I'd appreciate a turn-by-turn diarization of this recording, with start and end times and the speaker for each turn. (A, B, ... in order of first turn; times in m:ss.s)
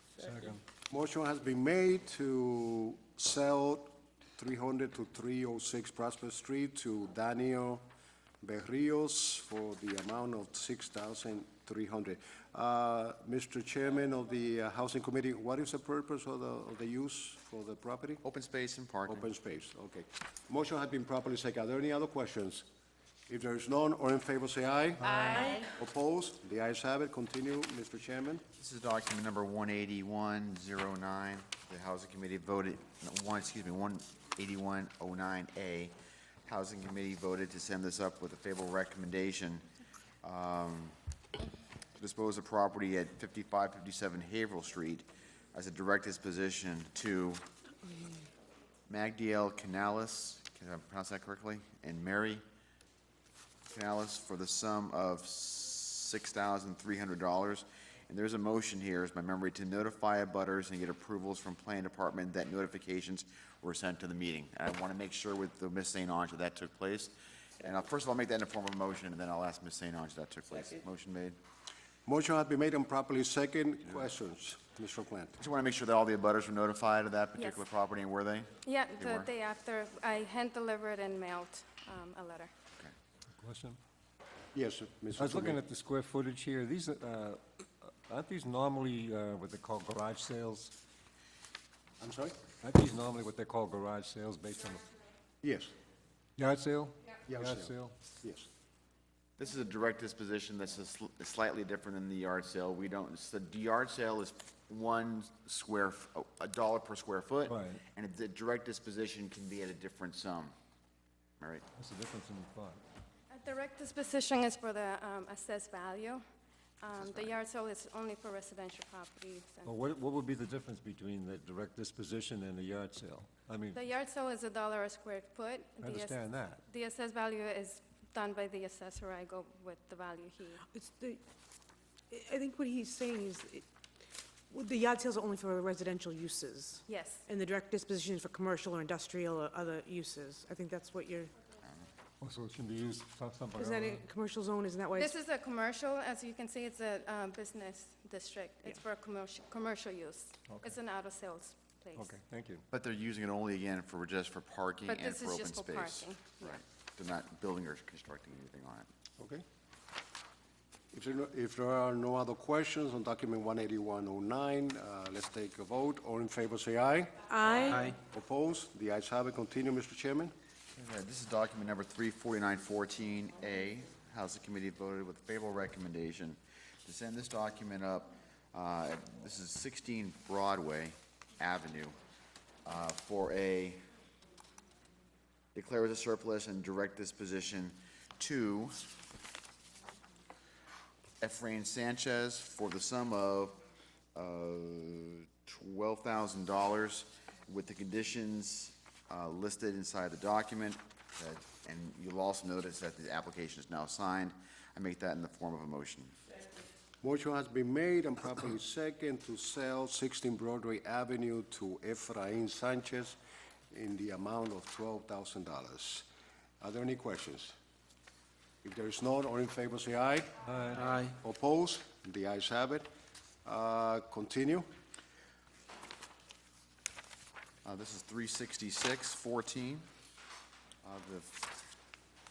0:00.2-0:00.6 A
0:00.9-0:07.8 B
0:08.4-0:18.2 B
0:18.2-0:19.3 C
0:19.1-0:22.6 B
0:23.3-0:28.4 B
0:28.6-0:35.9 C
0:36.5-0:39.6 C
0:40.2-0:41.0 C
0:42.0-0:47.4 C
0:48.9-0:52.4 C
0:53.7-1:11.4 C
1:12.1-1:15.4 B
1:15.4-1:19.3 C
1:17.4-1:17.6 D
1:18.6-1:22.5 D
1:23.4-1:23.8 A
1:24.5-1:25.6 B
1:25.2-1:30.7 A
1:32.0-1:32.4 B
1:32.6-1:34.8 A
1:35.4-1:35.7 B
1:36.4-1:38.0 A
1:37.3-1:38.5 B
1:39.4-1:50.5 C
1:47.5-1:47.8 A
1:51.8-1:52.8 A
1:53.3-1:56.2 D
1:56.8-1:59.7 D
1:57.0-1:57.4 C
1:59.6-2:03.8 A
2:03.7-2:10.6 D
2:05.8-2:06.6 A
2:10.7-2:11.2 E
2:12.1-2:13.6 E
2:14.5-2:21.3 E
2:16.9-2:17.2 D
2:22.2-2:24.1 A
2:23.6-2:25.2 E
2:25.0-2:32.1 D
2:30.5-2:30.8 A
2:32.0-2:32.6 A
2:32.7-2:38.9 C
2:34.9-2:36.6 D
2:40.9-2:47.2 B
2:47.3-2:47.9 E
2:47.9-2:50.3 B
2:50.8-3:02.0 C
3:02.6-3:03.8 C
3:05.6-3:08.8 C
3:11.2-3:13.6 C
3:14.2-3:26.2 C
3:27.0-3:33.2 B
3:33.7-3:36.1 B
3:36.6-3:37.5 B
3:38.6-3:40.3 B
3:40.5-3:40.8 A
3:41.1-3:42.9 B
3:43.4-3:44.6 B
3:47.6-3:49.9 C
3:50.8-3:51.4 C